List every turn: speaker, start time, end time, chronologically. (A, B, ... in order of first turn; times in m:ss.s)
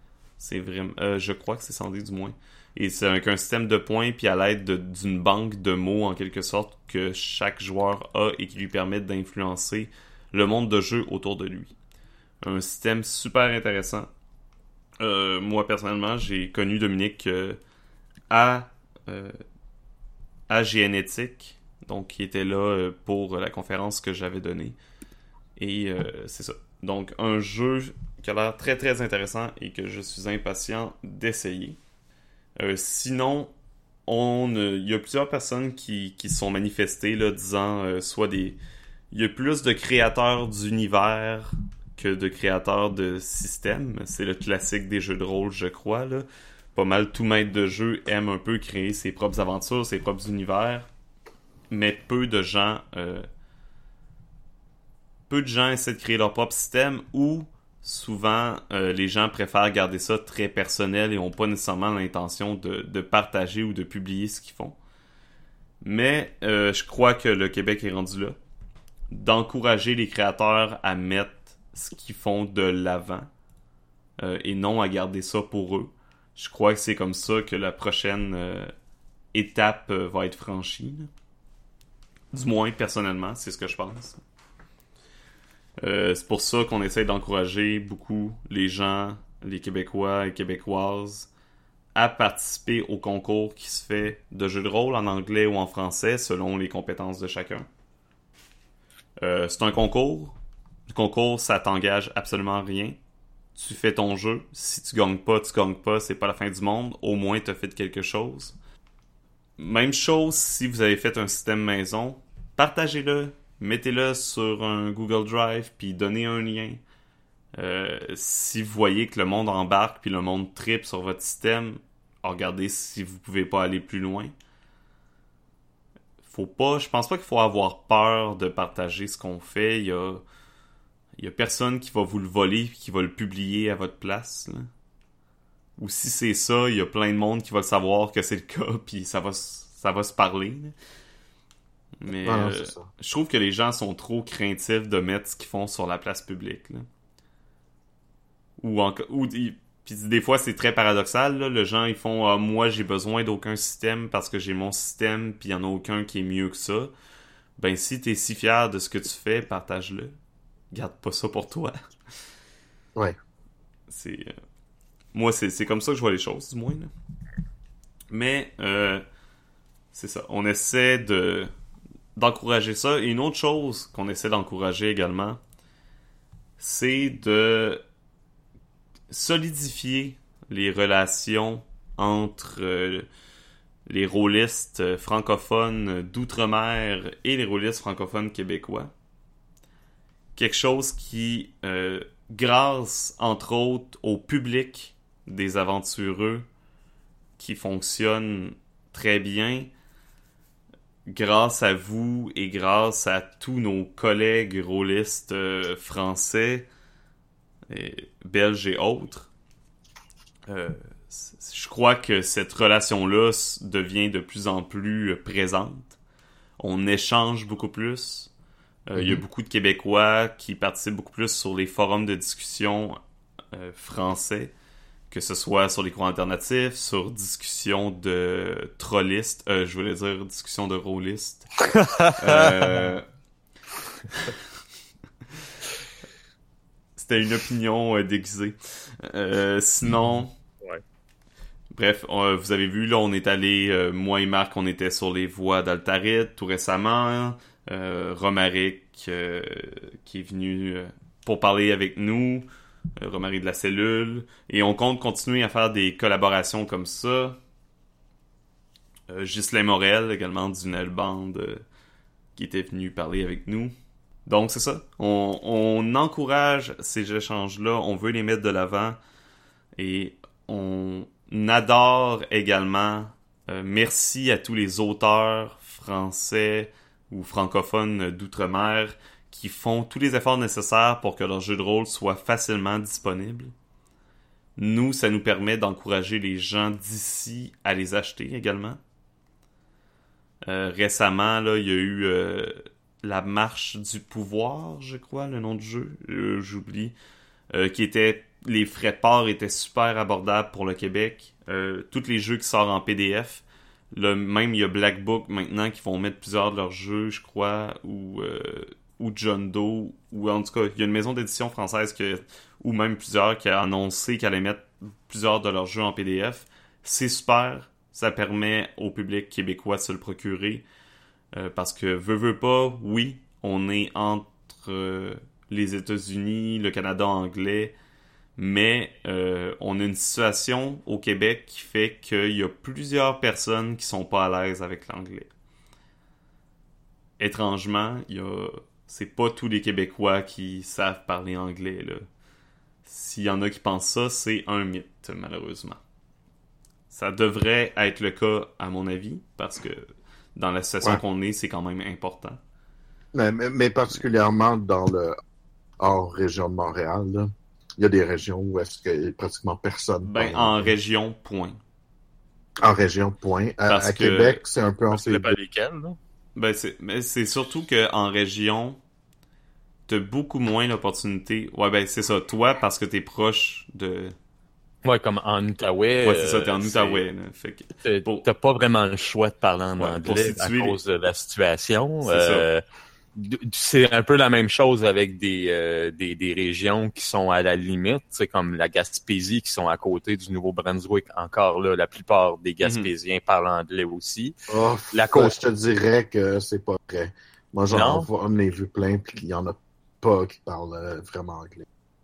0:00.4-0:11.7 A
0:12.4-0:14.1 A
0:15.0-0:17.6 A
0:18.3-0:19.4 A
0:20.5-0:24.8 A
0:25.6-0:31.8 A
0:32.6-0:33.5 A
0:34.0-0:38.6 A
0:39.1-0:50.9 A
0:51.7-0:53.2 A
0:55.3-1:04.8 A
1:05.8-1:08.4 A
1:09.1-1:13.3 A
1:14.2-1:18.7 A
1:19.3-1:21.1 A
1:22.3-1:24.2 A
1:25.8-1:31.3 A
1:31.9-1:37.7 A
1:39.2-1:40.4 A
1:40.9-1:43.0 A
1:43.6-1:48.6 A
1:49.6-1:56.8 A
1:57.6-2:04.3 A
2:06.2-2:10.2 A
2:11.2-2:14.7 A
2:15.8-2:20.8 A
2:22.0-2:26.8 A
2:22.2-2:22.9 B
2:28.6-2:36.9 A
2:37.6-2:40.1 A
2:40.7-2:41.8 A
2:43.9-2:44.3 A
2:45.1-2:46.9 A
2:48.1-2:49.0 A
2:49.9-2:51.5 A
2:52.2-2:55.4 A
2:56.6-2:57.8 A
2:59.1-3:03.1 A
3:03.8-3:08.9 A
3:10.4-3:16.4 A
3:17.4-3:19.7 A
3:21.1-3:26.7 A
3:27.7-3:29.3 A
3:30.5-3:36.0 A
3:36.6-3:38.3 A
3:38.9-3:43.0 A
3:43.5-3:44.5 A
3:45.1-3:51.5 A
3:51.7-3:52.5 C
3:52.1-3:53.0 A
3:57.0-4:00.3 A
4:01.8-4:12.5 A
4:13.0-4:17.4 A
4:19.1-4:21.6 A
4:22.4-4:23.7 A
4:24.2-4:29.0 A
4:29.8-4:43.5 A
4:44.6-4:48.8 A
4:50.4-4:57.0 A
4:57.5-5:20.6 A
5:21.3-5:27.8 A
5:28.4-5:35.3 A
5:37.2-5:42.0 A
5:42.8-5:45.8 A
5:46.9-5:52.4 A
5:53.1-5:55.2 B
5:55.8-6:00.8 B
6:00.0-6:01.6 A
6:02.6-6:05.4 B
6:03.6-6:04.4 A
6:04.9-6:06.0 C
6:06.4-6:08.8 A
6:09.9-6:14.1 A
6:14.8-6:17.0 C
6:16.0-6:18.3 A
6:17.8-6:22.6 C
6:19.8-6:20.8 A
6:22.0-6:22.5 A
6:23.1-6:34.4 C
6:32.6-6:32.9 A
6:34.5-6:41.6 B
6:34.9-6:35.4 C
6:37.7-6:38.1 C